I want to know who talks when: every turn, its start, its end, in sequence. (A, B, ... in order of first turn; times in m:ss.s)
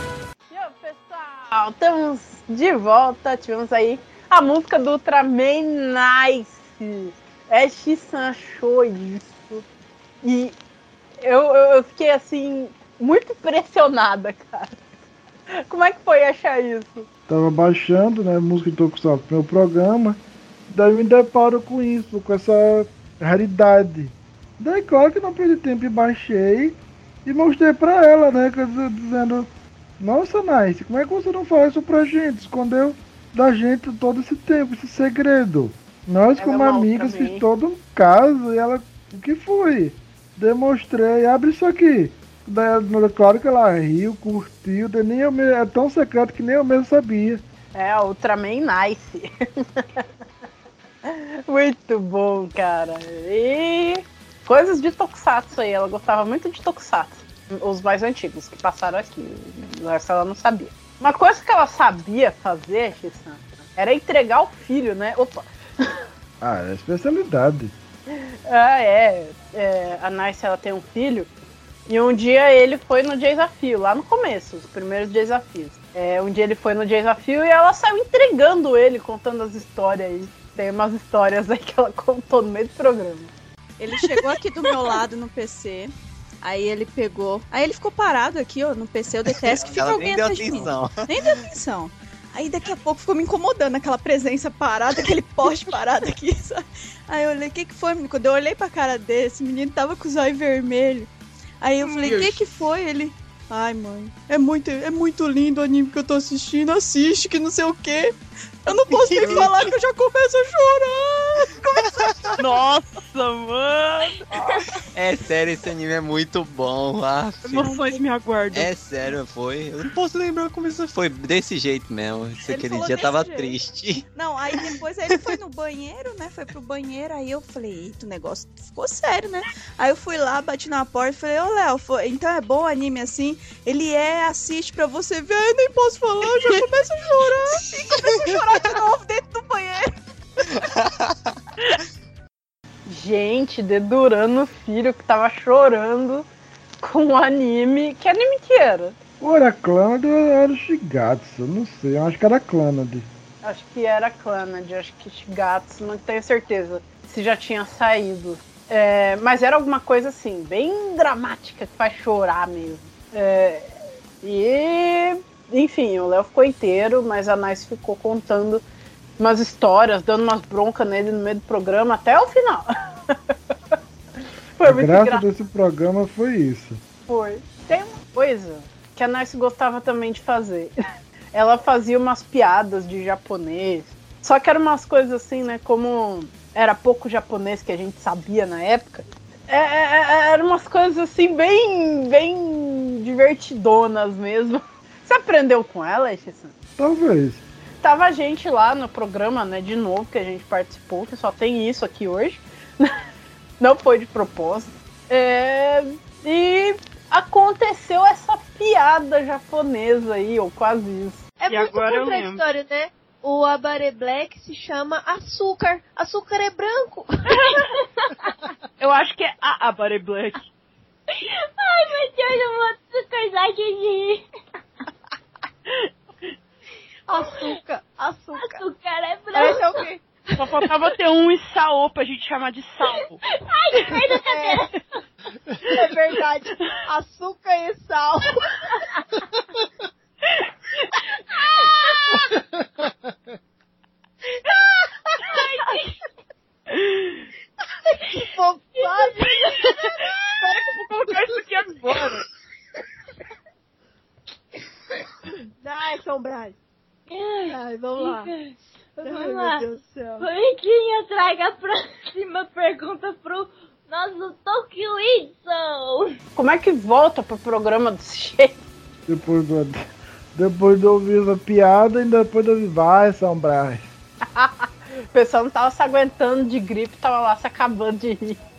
0:00.5-0:09.6 A
0:10.2-0:10.6 A
0:11.2-0:14.8 A
0:15.5-0:17.1 A
0:17.3-0:29.5 B
0:30.0-0:47.4 B
0:36.4-0:37.4 A
0:47.7-0:50.0 A
0:51.0-1:05.8 A
1:06.4-1:07.7 B
1:08.1-1:11.3 A
1:11.9-1:23.3 A
1:23.8-1:41.1 C
1:29.3-1:31.0 D
1:41.6-1:52.1 C
1:48.9-1:49.4 E
1:49.1-1:49.6 D
1:52.4-1:54.2 E
1:54.9-1:57.9 D
1:57.4-1:58.7 E
1:58.5-2:04.0 D
2:02.5-2:03.5 C
2:04.1-2:19.9 C
2:22.9-2:26.2 A
2:26.8-2:29.0 A
2:29.2-2:33.1 B
2:33.4-2:43.7 A
2:44.2-2:48.6 A
2:49.2-2:53.1 A
2:54.6-2:55.2 A
2:54.6-2:56.8 B
2:57.1-3:00.7 A
3:01.3-3:16.5 A
3:16.8-3:17.4 B
3:17.8-3:23.0 A
3:23.6-3:31.2 A
3:31.4-3:37.4 F
3:31.5-3:32.4 E
3:37.6-3:38.3 G
3:38.8-3:40.4 E
3:41.1-3:44.2 G
3:47.1-3:48.6 F
3:47.2-3:47.6 G
3:48.3-3:49.9 G
3:49.3-3:50.5 F
3:50.3-3:53.2 E
3:53.3-3:54.8 G
3:54.2-3:54.6 F
3:55.6-3:58.6 F
4:01.6-4:02.3 G
4:05.2-4:05.9 G
4:08.0-4:09.8 F
4:08.7-4:09.9 G
4:10.4-4:11.4 F
4:10.6-4:12.2 E
4:15.6-4:16.5 F
4:17.1-4:26.1 G
4:17.4-4:18.3 F
4:19.0-4:20.3 F
4:26.4-4:28.6 A
4:29.1-4:33.9 B
4:34.3-4:38.4 A